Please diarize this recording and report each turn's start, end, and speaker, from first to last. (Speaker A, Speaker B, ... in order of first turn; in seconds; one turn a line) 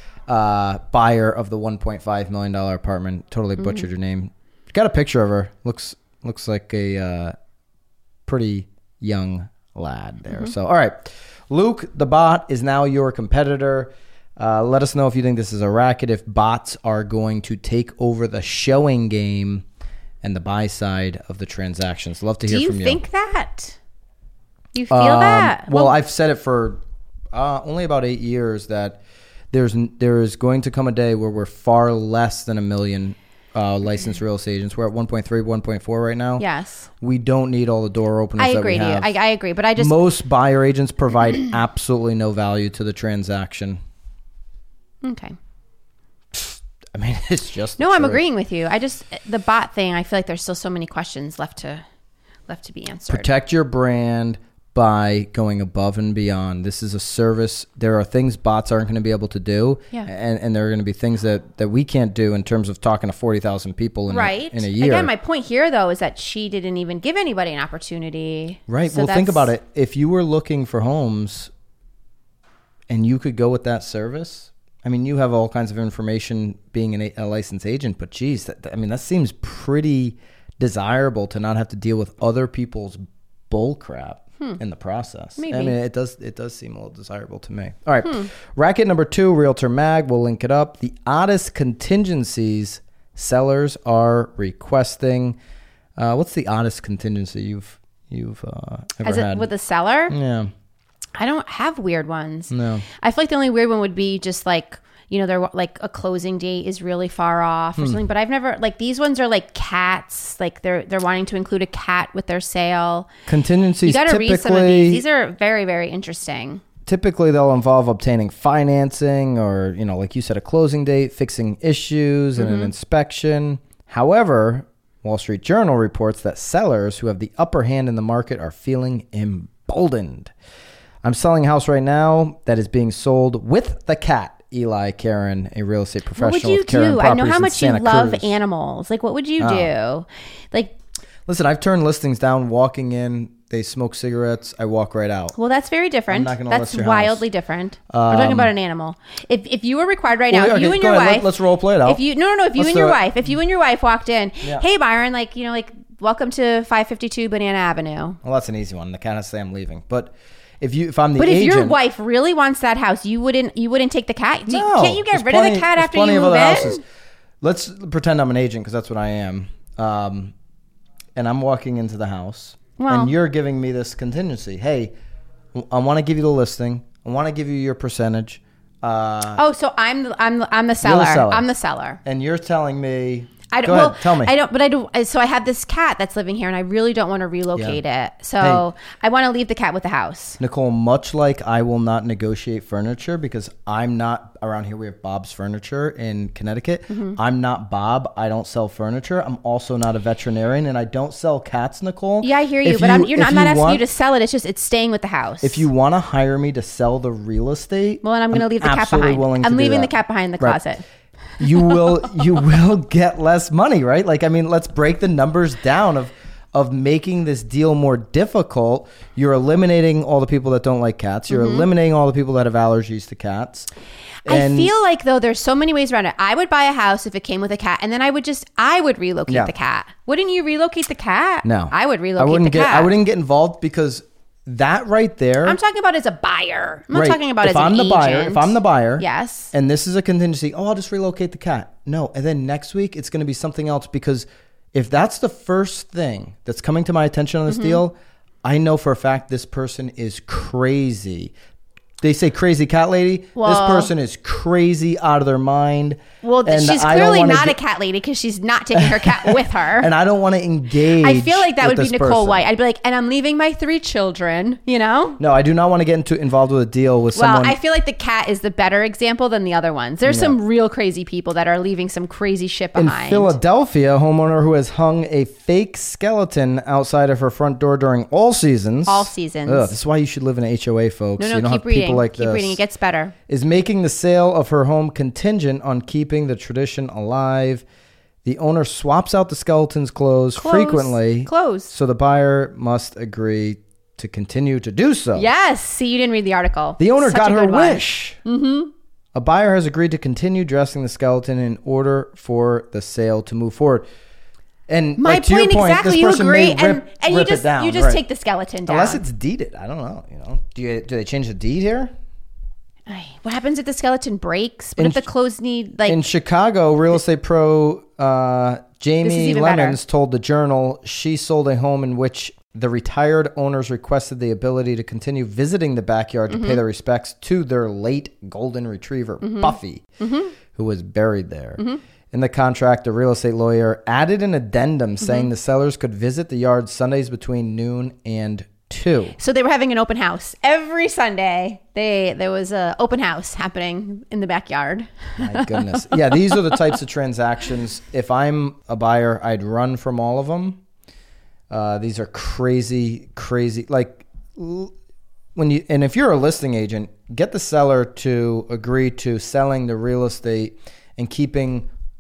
Speaker A: 0.3-7.3
Speaker B: 3.6-3.9
Speaker A: 8.3-19.6
Speaker A: 20.2-23.0
Speaker B: 22.5-23.8
Speaker B: 24.7-25.9
Speaker A: 24.9-26.8
Speaker A: 27.3-29.0
Speaker A: 29.5-36.5
Speaker B: 36.4-36.9
Speaker A: 37.0-39.1
Speaker B: 38.4-40.0
Speaker A: 39.8-43.8
Speaker B: 45.0-45.4
Speaker A: 46.3-48.2
Speaker B: 47.8-51.8
Speaker B: 52.5-53.3
Speaker A: 53.1-65.1
Speaker B: 64.1-69.5
Speaker A: 68.7-71.5
Speaker A: 72.9-95.4
Speaker B: 85.4-85.8
Speaker A: 96.0-99.5
Speaker B: 99.0-100.1
Speaker A: 100.1-100.5
Speaker B: 101.2-113.1
Speaker A: 102.5-102.8
Speaker A: 113.3-115.0
Speaker B: 113.8-116.6
Speaker A: 116.9-130.3
Speaker B: 122.4-122.7
Speaker A: 131.0-138.3
Speaker B: 136.2-140.8
Speaker A: 139.4-139.7
Speaker A: 141.3-145.3
Speaker B: 145.4-151.3
Speaker A: 146.1-147.2
Speaker A: 147.9-148.5
Speaker A: 150.3-152.0
Speaker B: 151.8-158.2
Speaker A: 152.6-153.0
Speaker A: 158.2-161.8
Speaker B: 161.2-166.8
Speaker A: 164.5-166.8
Speaker A: 167.4-170.3
Speaker A: 171.2-174.9
Speaker B: 172.8-173.1
Speaker A: 175.6-179.4
Speaker B: 179.3-182.0
Speaker A: 180.8-181.4
Speaker A: 182.0-184.3
Speaker B: 183.5-190.4
Speaker A: 190.4-203.8
Speaker B: 196.9-197.2
Speaker B: 202.2-205.7
Speaker A: 205.4-210.6
Speaker B: 208.0-210.8
Speaker A: 211.4-223.7
Speaker B: 221.3-221.7
Speaker A: 224.2-224.7
Speaker B: 224.3-232.9
Speaker A: 231.4-235.6
Speaker B: 235.4-239.5
Speaker A: 236.9-251.3
Speaker B: 247.5-247.8
Speaker A: 252.0-257.6
Speaker B: 253.4-253.9
Speaker B: 256.2-259.9
Speaker A: 258.8-262.4
Speaker B: 261.0-265.2
Speaker A: 265.2-267.6
Speaker B: 267.2-273.4
Speaker A: 270.1-270.4
Speaker A: 272.8-282.6
Speaker B: 278.9-279.8
Speaker B: 281.2-283.1
Speaker A: 283.3-287.6
Speaker A: 288.2-295.3
Speaker B: 290.4-291.7
Speaker B: 295.1-298.7
Speaker A: 296.8-298.2
Speaker A: 299.1-303.9
Speaker A: 304.7-308.0
Speaker B: 305.0-309.0
Speaker A: 308.7-311.9
Speaker B: 312.9-316.1
Speaker A: 314.8-315.0
Speaker A: 315.9-329.8
Speaker B: 319.0-319.8
Speaker B: 326.3-326.6
Speaker B: 329.2-330.3
Speaker A: 330.5-339.2
Speaker B: 335.0-335.3
Speaker B: 339.2-346.6
Speaker A: 345.2-350.6
Speaker A: 351.5-354.7
Speaker A: 355.4-361.7